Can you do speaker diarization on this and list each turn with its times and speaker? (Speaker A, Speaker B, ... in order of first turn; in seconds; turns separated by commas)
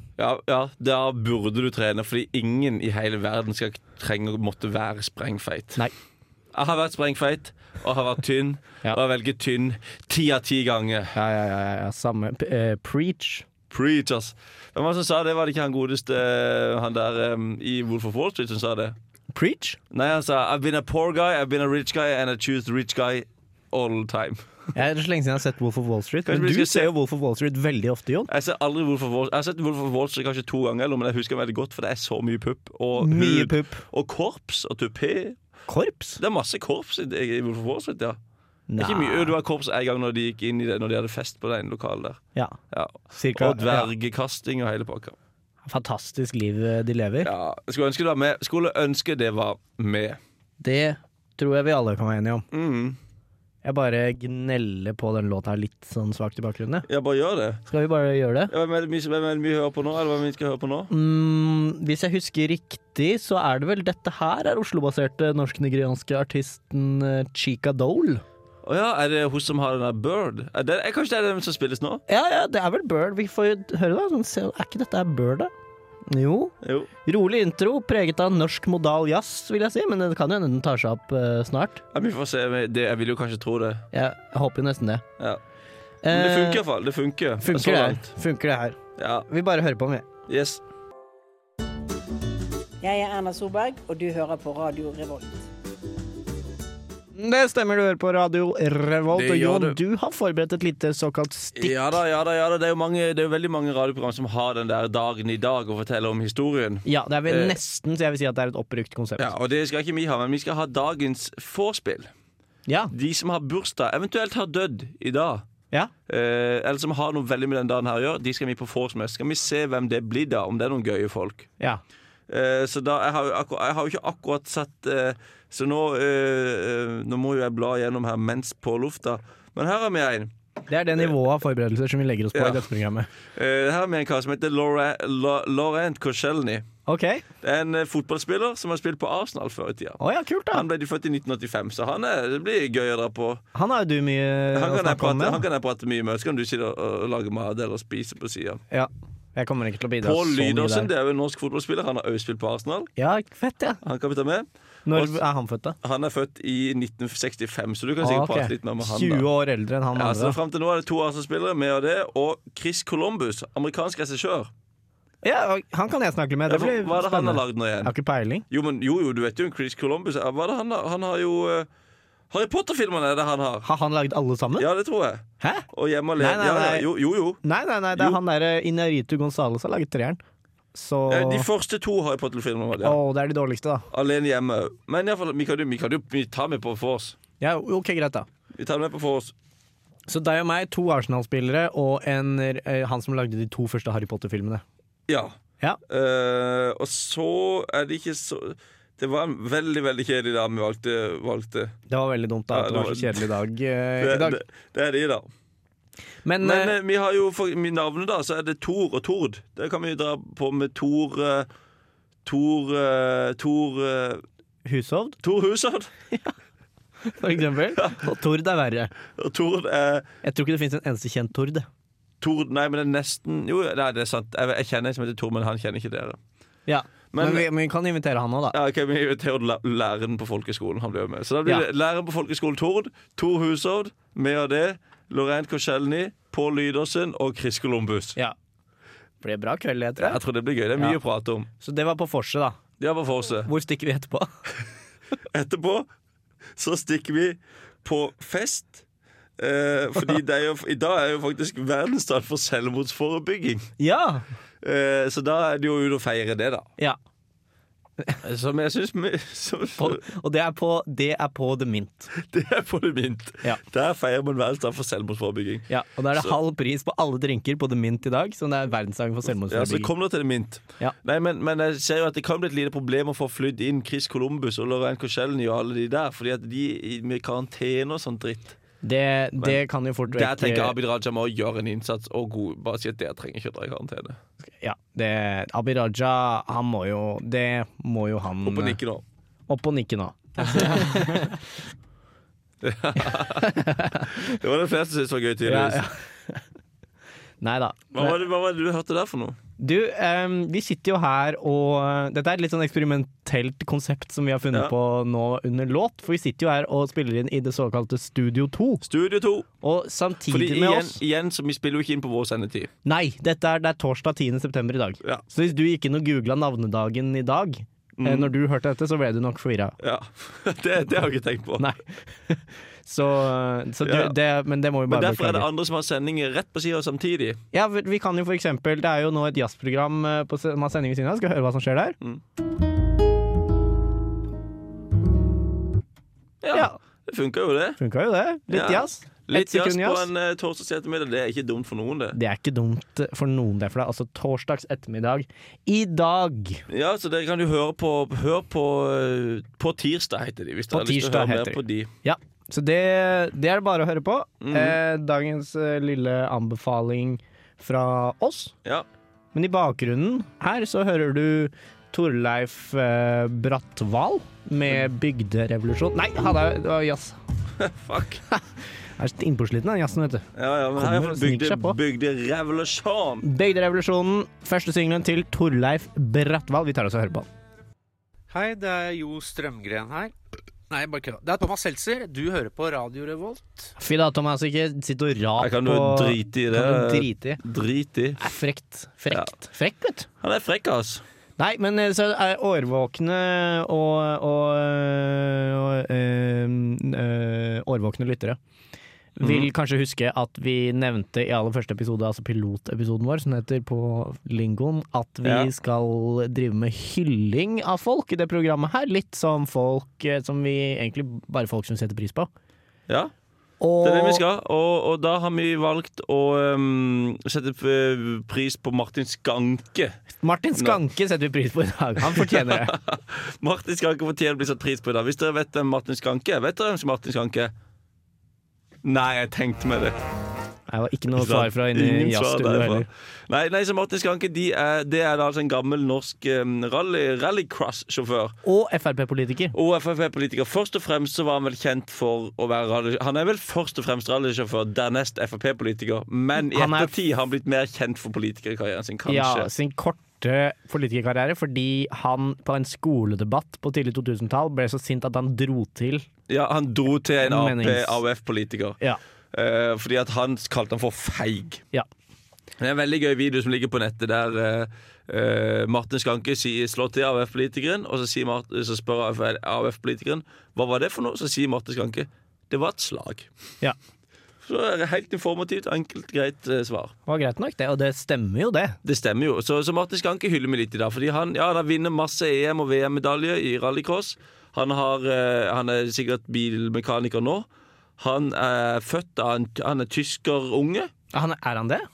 Speaker A: 0.2-5.8, Speaker A: 6.5-11.1, Speaker B: 11.1-13.4, Speaker A: 13.7-18.9, Speaker B: 19.3-19.8, Speaker A: 19.9-24.4, Speaker B: 24.7-28.3, Speaker A: 26.2-26.9, Speaker A: 28.3-35.4, Speaker B: 33.0-33.8, Speaker B: 35.7-36.2, Speaker A: 36.2-38.2, Speaker B: 38.7-39.3, Speaker A: 38.8-42.2, Speaker A: 42.7-45.2, Speaker B: 43.1-43.9, Speaker B: 45.6-47.3, Speaker A: 47.2-50.2, Speaker B: 50.6-52.4, Speaker A: 52.5-53.0, Speaker B: 53.6-56.9, Speaker A: 56.9-57.6, Speaker B: 57.7-58.5, Speaker A: 58.5-60.9, Speaker B: 60.9-68.2, Speaker A: 68.6-72.0, Speaker B: 72.1-75.5, Speaker B: 76.1-76.5, Speaker A: 76.6-76.9, Speaker B: 77.0-81.8, Speaker A: 81.9-83.8, Speaker B: 83.9-85.0, Speaker B: 86.0-86.6, Speaker A: 86.1-88.1, Speaker B: 87.4-90.1, Speaker A: 89.0-89.3, Speaker A: 90.3-90.6, Speaker C: 92.8-95.4, Speaker B: 97.1-102.0, Speaker A: 99.1-99.8, Speaker A: 101.5-107.6, Speaker B: 106.8-109.3, Speaker A: 109.2-112.1, Speaker B: 112.7-112.9, Speaker A: 112.9-115.5, Speaker A: 116.1-121.5, Speaker A: 122.3-130.3, Speaker B: 130.7-133.1, Speaker A: 132.3-132.7, Speaker A: 133.3-136.7, Speaker B: 136.9-137.2, Speaker A: 137.4-143.4, Speaker B: 140.0-140.6, Speaker B: 143.5-145.4, Speaker A: 144.5-148.6, Speaker B: 148.7-150.9, Speaker A: 150.0-152.9, Speaker B: 153.0-153.8, Speaker A: 153.8-155.2, Speaker B: 154.8-155.8, Speaker A: 155.8-159.3, Speaker B: 158.0-160.4, Speaker A: 159.9-164.5, Speaker B: 165.2-168.4, Speaker A: 166.5-167.9, Speaker A: 168.5-171.7, Speaker A: 172.3-173.7, Speaker B: 173.6-174.7, Speaker A: 174.6-177.4, Speaker B: 176.2-176.9, Speaker B: 177.4-180.2, Speaker B: 180.7-181.5, Speaker A: 181.1-183.0, Speaker B: 182.8-183.9, Speaker A: 183.9-187.2, Speaker B: 187.4-188.3, Speaker A: 188.5-189.3, Speaker B: 190.1-194.6, Speaker A: 195.1-195.3, Speaker A: 195.9-201.7, Speaker B: 201.9-204.4, Speaker A: 202.5-203.3, Speaker A: 204.0-205.3, Speaker B: 206.2-206.7, Speaker A: 206.4-211.5, Speaker A: 212.2-214.2, Speaker B: 214.6-215.2, Speaker A: 215.2-215.9, Speaker B: 217.1-218.9, Speaker A: 217.7-218.1, Speaker A: 219.1-220.1, Speaker B: 220.2-221.7, Speaker A: 222.2-226.2, Speaker B: 226.7-228.6, Speaker A: 227.1-227.5, Speaker A: 228.5-238.2, Speaker B: 239.2-240.2, Speaker A: 240.0-241.5, Speaker B: 241.6-242.6, Speaker A: 242.8-243.5, Speaker B: 243.4-244.3, Speaker A: 245.3-245.9, Speaker A: 246.6-248.8, Speaker A: 249.4-253.7, Speaker B: 253.8-254.2, Speaker A: 254.6-256.7, Speaker A: 258.2-260.0, Speaker B: 259.8-262.1, Speaker A: 262.1-266.3, Speaker B: 265.7-269.9, Speaker A: 269.4-278.6, Speaker B: 278.8-280.7, Speaker A: 279.4-284.2, Speaker B: 284.6-288.8, Speaker A: 288.4-289.0, Speaker B: 289.5-291.4, Speaker A: 290.4-291.2, Speaker A: 292.6-295.8, Speaker B: 293.2-294.2, Speaker B: 295.4-296.4, Speaker B: 297.4-298.2, Speaker A: 297.9-299.4, Speaker B: 299.6-308.8, Speaker A: 308.8-309.5, Speaker B: 309.6-311.0, Speaker A: 310.3-312.7, Speaker B: 312.8-319.8, Speaker A: 318.0-318.3, Speaker A: 319.8-321.7, Speaker B: 321.6-325.5, Speaker A: 323.8-324.1, Speaker A: 324.9-327.4, Speaker B: 327.5-332.0, Speaker A: 336.4-337.8, Speaker B: 336.5-336.8, Speaker B: 337.8-340.1, Speaker A: 338.5-342.2, Speaker B: 342.1-346.6, Speaker A: 346.7-351.9, Speaker B: 350.7-358.5, Speaker A: 354.4-354.8, Speaker B: 359.3-367.2, Speaker A: 367.6-368.2, Speaker B: 369.0-371.8, Speaker A: 370.3-373.2, Speaker B: 373.2-377.3, Speaker D: 378.3-380.1, Speaker D: 380.7-383.7, Speaker B: 383.8-387.4, Speaker A: 385.4-388.2, Speaker B: 388.2-390.1, Speaker A: 390.2-391.0, Speaker B: 391.4-398.4, Speaker B: 399.1-412.3, Speaker A: 399.2-399.5, Speaker A: 405.2-405.5, Speaker B: 413.6-414.2, Speaker A: 413.8-420.0, Speaker B: 420.2-422.7, Speaker A: 420.6-420.8, Speaker A: 422.0-427.5, Speaker A: 428.8-430.0, Speaker B: 430.7-432.9, Speaker A: 431.1-438.4, Speaker B: 438.4-439.5, Speaker A: 439.5-449.5, Speaker B: 446.4-446.9, Speaker B: 449.1-456.1, Speaker A: 456.3-458.8, Speaker B: 457.2-458.0, Speaker A: 459.3-461.6, Speaker A: 462.6-473.3, Speaker A: 474.4-476.9, Speaker B: 477.1-478.8, Speaker A: 478.8-487.5, Speaker A: 488.0-490.9, Speaker B: 491.1-491.9